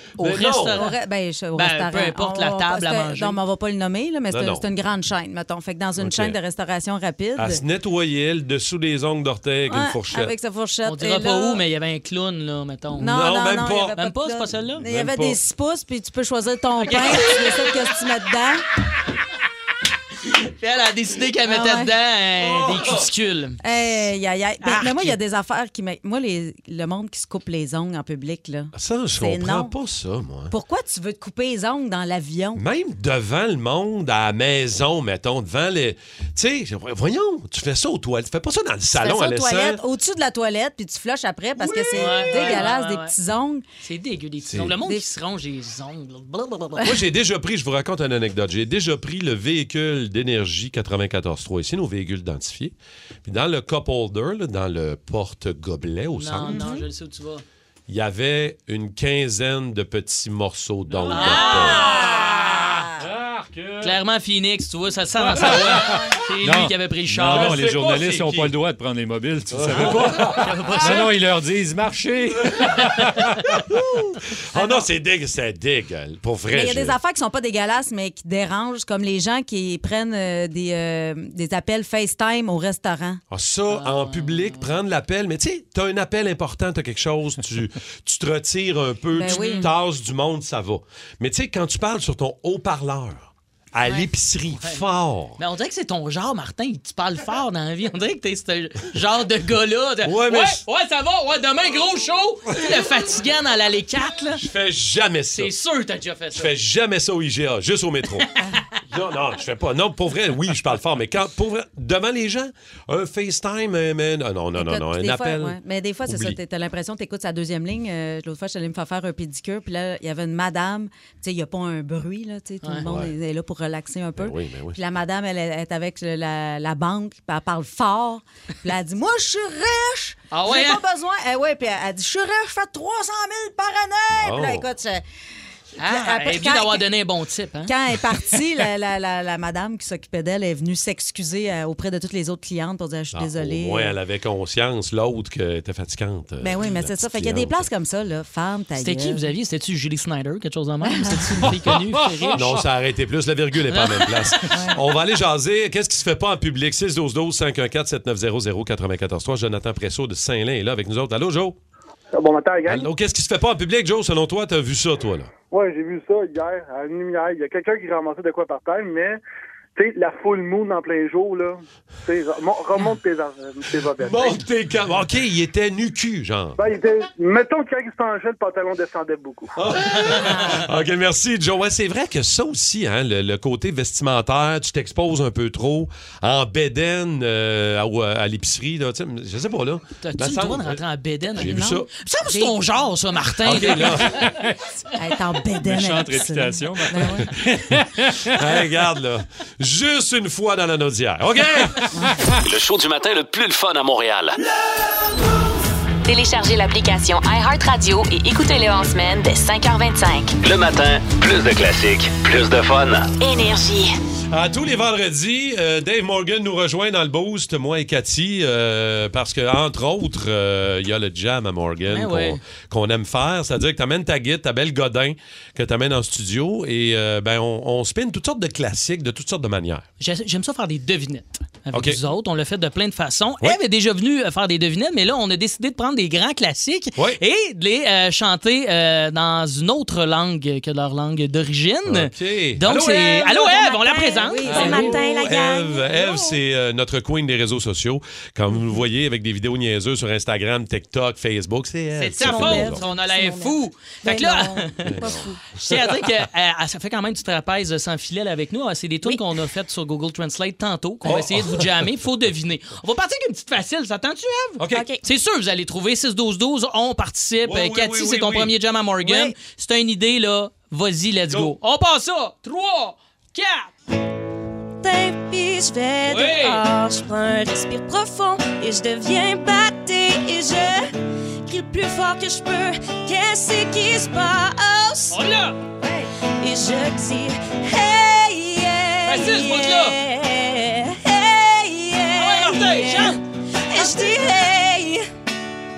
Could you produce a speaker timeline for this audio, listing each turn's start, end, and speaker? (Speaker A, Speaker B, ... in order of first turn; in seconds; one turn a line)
Speaker A: 0.2-0.8
Speaker B: 0.2-1.0
Speaker C: 0.7-7.6
Speaker B: 1.6-3.4
Speaker A: 4.3-4.7
Speaker A: 6.0-6.4
Speaker A: 7.4-10.3
Speaker C: 9.7-11.6
Speaker B: 10.9-13.1
Speaker C: 13.0-18.6
Speaker A: 13.1-14.0
Speaker B: 14.0-14.8
Speaker A: 14.8-15.4
Speaker B: 16.8-17.7
Speaker B: 20.2-23.6
Speaker C: 21.5-21.9
Speaker A: 22.4-23.1
Speaker C: 23.6-29.8
Speaker B: 24.6-25.2
Speaker A: 28.7-30.5
Speaker C: 30.5-32.6
Speaker A: 32.5-39.8
Speaker C: 38.9-43.6
Speaker B: 41.9-43.1
Speaker B: 43.8-46.9
Speaker A: 44.5-44.8
Speaker C: 44.8-45.0
Speaker A: 46.8-56.7
Speaker B: 56.1-57.4
Speaker C: 56.5-56.9
Speaker A: 57.9-61.9
Speaker D: 61.0-64.0
Speaker B: 61.1-62.2
Speaker C: 61.9-62.4
Speaker B: 63.8-67.7
Speaker D: 65.2-73.6
Speaker A: 67.2-68.5
Speaker A: 69.5-70.4
Speaker B: 70.2-71.1
Speaker A: 73.7-77.0
Speaker C: 74.5-74.9
Speaker C: 76.5-83.2
Speaker A: 83.3-95.4
Speaker B: 83.7-84.8
Speaker C: 89.1-89.7
Speaker B: 89.3-89.7
Speaker B: 95.4-104.4
Speaker A: 100.0-100.6
Speaker A: 104.3-105.5
Speaker B: 105.3-106.5
Speaker A: 106.3-108.3
Speaker A: 108.9-116.4
Speaker C: 114.5-135.0
Speaker A: 122.8-123.1
Speaker A: 124.2-124.8
Speaker B: 130.3-130.8
Speaker A: 134.1-134.7
Speaker B: 135.8-138.4
Speaker C: 135.8-136.9
Speaker C: 137.7-143.9
Speaker A: 143.1-147.7
Speaker C: 146.4-149.3
Speaker B: 148.8-152.5
Speaker C: 150.8-151.4
Speaker D: 151.8-152.4
Speaker A: 152.3-161.6
Speaker B: 153.7-154.6
Speaker C: 154.5-154.8
Speaker E: 162.2-162.9
Speaker A: 162.7-165.3
Speaker E: 165.5-169.2
Speaker E: 169.8-174.4
Speaker A: 174.0-176.6
Speaker E: 176.6-179.5
Speaker A: 179.6-190.8
Speaker B: 179.9-180.6
Speaker B: 190.0-194.2
Speaker A: 191.4-191.9
Speaker C: 191.4-192.6
Speaker A: 193.4-194.2
Speaker D: 194.1-194.5
Speaker C: 195.0-197.3
Speaker D: 195.6-198.4
Speaker A: 198.3-201.8
Speaker C: 201.9-202.2
Speaker F: 202.4-204.4
Speaker G: 206.1-210.3
Speaker F: 210.4-213.1
Speaker G: 213.2-213.9
Speaker A: 214.3-229.9
Speaker B: 221.9-222.4
Speaker B: 230.0-245.0
Speaker A: 231.7-232.0
Speaker A: 237.0-237.2
Speaker A: 241.9-243.4
Speaker H: 243.5-246.3
Speaker C: 244.0-245.2
Speaker A: 244.5-252.8
Speaker B: 252.0-273.7
Speaker C: 252.2-255.4
Speaker A: 254.8-255.8
Speaker A: 261.0-261.9
Speaker A: 264.6-264.9
Speaker A: 267.4-268.6
Speaker C: 269.0-269.3
Speaker A: 271.3-271.6
Speaker H: 274.8-280.9
Speaker B: 276.1-276.6
Speaker H: 281.5-285.2
Speaker B: 285.1-285.6
Speaker H: 286.4-295.1
Speaker B: 289.1-290.0
Speaker B: 292.2-293.2